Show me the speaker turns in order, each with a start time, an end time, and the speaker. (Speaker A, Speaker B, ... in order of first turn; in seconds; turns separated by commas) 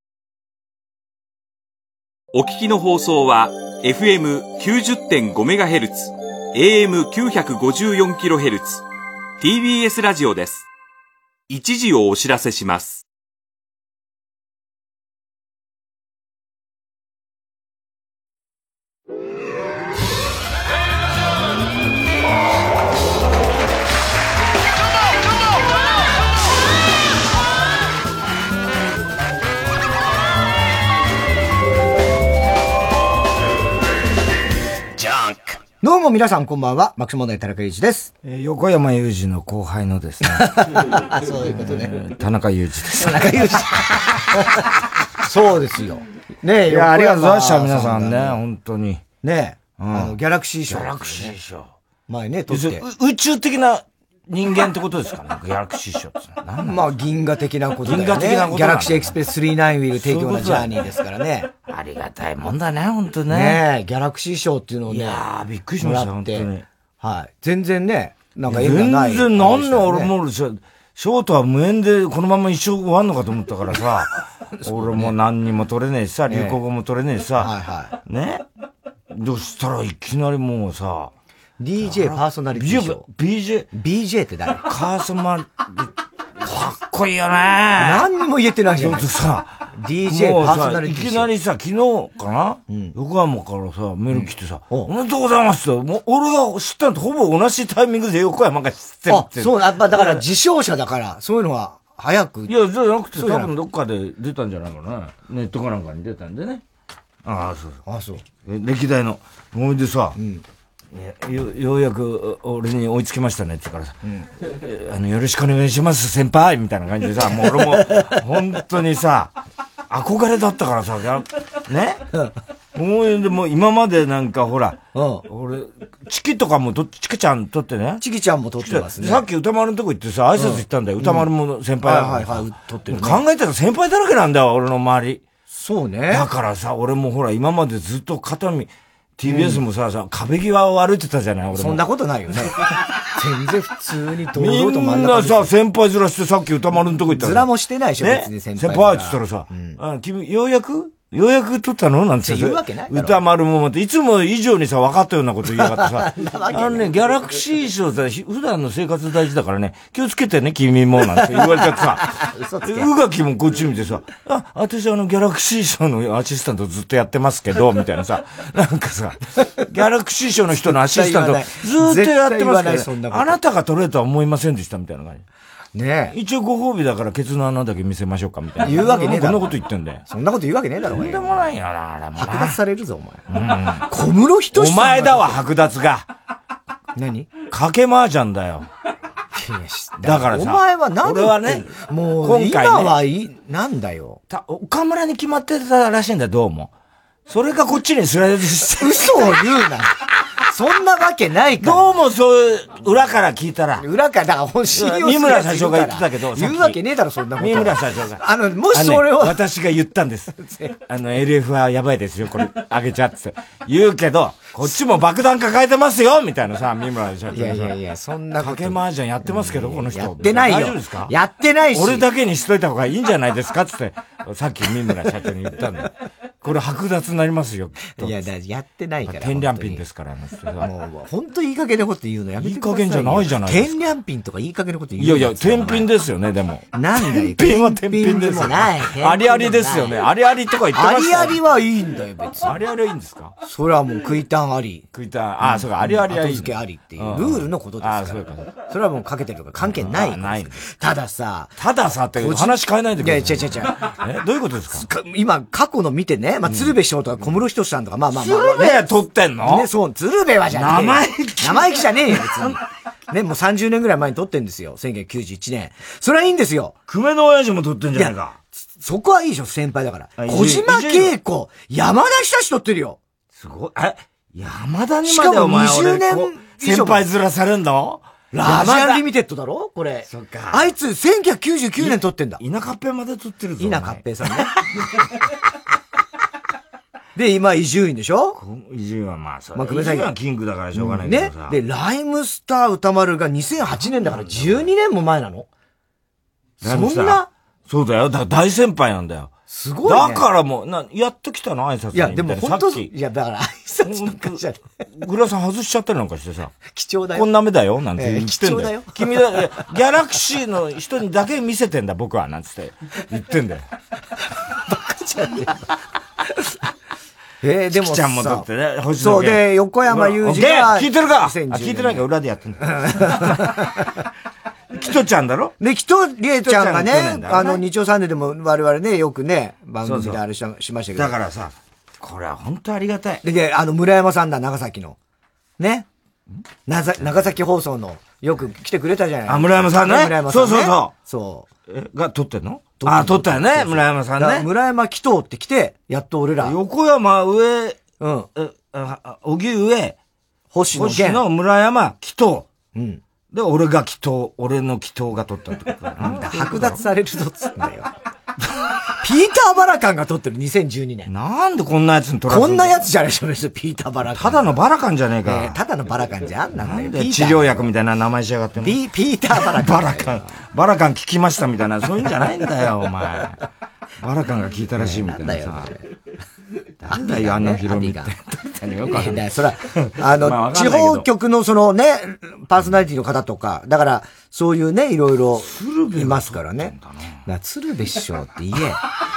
Speaker A: 2.3-8.8, Speaker A: 9.4-10.7, Speaker A: 11.5-13.0, Speaker B: 35.8-38.1, Speaker C: 38.2-40.5, Speaker B: 40.4-41.9, Speaker C: 41.5-43.3, Speaker B: 43.0-44.6, Speaker B: 45.2-48.4, Speaker C: 46.7-49.0, Speaker B: 49.2-51.4, Speaker C: 49.8-50.2, Speaker C: 50.7-51.7, Speaker B: 52.1-52.9, Speaker C: 52.5-56.8, Speaker B: 56.6-61.5, Speaker C: 57.9-59.1, Speaker C: 59.9-60.8, Speaker C: 61.6-63.6, Speaker B: 63.3-65.2, Speaker C: 64.9-66.7, Speaker B: 65.8-66.5, Speaker B: 67.0-70.1, Speaker C: 68.5-77.5, Speaker B: 74.6-75.1, Speaker B: 76.3-76.6, Speaker B: 77.4-78.0, Speaker C: 78.0-78.4, Speaker C: 79.1-81.1, Speaker B: 81.6-83.0, Speaker C: 81.8-83.7, Speaker B: 83.7-84.6, Speaker C: 84.6-88.1, Speaker B: 87.8-89.0, Speaker C: 88.8-100.2, Speaker B: 89.7-91.3, Speaker B: 92.7-93.0, Speaker B: 94.1-94.9, Speaker B: 99.1-102.5, Speaker C: 102.5-106.6, Speaker B: 103.2-103.5, Speaker C: 107.2-107.8, Speaker B: 107.9-108.2, Speaker C: 108.4-110.2, Speaker B: 110.2-110.4, Speaker C: 110.9-119.3, Speaker B: 117.4-118.2, Speaker C: 119.9-122.0, Speaker C: 122.8-128.0, Speaker B: 125.0-125.2, Speaker B: 128.0-129.2, Speaker C: 128.6-135.2, Speaker B: 130.4-131.3, Speaker B: 131.8-133.2, Speaker B: 135.5-136.3, Speaker C: 136.1-141.8, Speaker B: 139.2-139.6, Speaker B: 141.5-142.6, Speaker B: 143.2-145.5, Speaker C: 144.3-162.1, Speaker B: 147.1-149.8, Speaker B: 152.2-153.2, Speaker B: 155.6-156.9, Speaker B: 161.4-162.9, Speaker C: 162.7-175.2, Speaker B: 170.6-173.4, Speaker B: 175.8-176.2, Speaker C: 176.1-180.0, Speaker B: 178.6-179.6, Speaker B: 180.1-181.4, Speaker C: 180.9-182.6, Speaker B: 182.2-183.3, Speaker C: 183.3-183.9, Speaker B: 183.9-185.4, Speaker C: 184.5-186.1, Speaker B: 187.0-187.3, Speaker C: 187.5-188.7, Speaker B: 189.3-194.2, Speaker C: 190.0-193.0, Speaker C: 194.3-196.7, Speaker C: 197.3-199.2, Speaker B: 198.8-201.9, Speaker C: 201.6-203.8, Speaker B: 203.8-209.4, Speaker C: 204.7-206.8, Speaker C: 207.4-210.3, Speaker B: 210.4-210.8, Speaker C: 210.9-217.8, Speaker B: 217.3-222.1, Speaker C: 218.4-221.1, Speaker C: 221.7-225.9, Speaker C: 226.4-228.2, Speaker B: 228.0-229.8, Speaker C: 229.1-230.7, Speaker B: 230.6-235.9, Speaker C: 232.4-233.8, Speaker C: 235.0-241.4, Speaker B: 236.7-240.0, Speaker B: 240.8-242.6, Speaker C: 242.4-243.3, Speaker B: 243.4-244.9, Speaker C: 244.9-248.7, Speaker B: 245.4-251.5, Speaker C: 249.6-250.6, Speaker C: 251.6-254.8, Speaker B: 252.2-253.8, Speaker B: 254.7-258.9, Speaker C: 256.5-257.4, Speaker C: 258.1-259.7, Speaker B: 259.4-266.8, Speaker C: 260.5-262.5, Speaker C: 266.9-268.4, Speaker B: 267.9-273.0, Speaker C: 270.2-271.2, Speaker C: 273.3-279.1, Speaker B: 275.1-277.1, Speaker B: 278.3-282.4, Speaker C: 280.1-280.7, Speaker C: 281.8-284.0, Speaker B: 283.6-284.5, Speaker B: 287.2-288.4, Speaker C: 288.3-291.6, Speaker B: 289.6-290.1, Speaker B: 290.7-295.5, Speaker C: 294.0-294.7, Speaker B: 296.6-297.3, Speaker C: 296.6-299.3, Speaker B: 299.5-300.2, Speaker C: 299.9-302.9, Speaker B: 301.9-304.6, Speaker C: 303.9-304.4, Speaker C: 304.9-306.5, Speaker B: 306.7-307.3, Speaker C: 307.1-313.7, Speaker B: 308.0-309.0, Speaker B: 314.7-315.7, Speaker B: 317.4-318.5, Speaker C: 317.7-323.5, Speaker B: 319.0-322.0, Speaker B: 322.6-323.9, Speaker C: 324.7-325.5, Speaker B: 325.6-331.1, Speaker C: 326.4-327.6, Speaker C: 329.8-330.2, Speaker C: 331.0-333.2, Speaker B: 333.2-335.0, Speaker B: 335.6-335.9, Speaker B: 336.7-341.5, Speaker C: 339.3-340.9, Speaker C: 341.7-344.5, Speaker B: 342.8-346.6, Speaker C: 346.4-347.8, Speaker B: 348.0-348.3, Speaker C: 348.4-350.0, Speaker B: 350.5-351.2, Speaker C: 350.7-352.5, Speaker B: 352.7-353.0, Speaker C: 353.3-356.8, Speaker B: 356.0-357.9, Speaker B: 359.0-361.1, Speaker C: 361.1-362.8, Speaker B: 362.3-364.6, Speaker C: 364.1-365.6, Speaker B: 365.2-367.7, Speaker C: 366.6-368.8, Speaker B: 368.6-370.4, Speaker C: 369.3-373.4, Speaker C: 374.0-375.7, Speaker B: 374.8-375.9, Speaker C: 376.8-381.1, Speaker B: 376.9-378.1, Speaker B: 378.9-386.7, Speaker C: 385.4-387.2, Speaker B: 387.3-388.8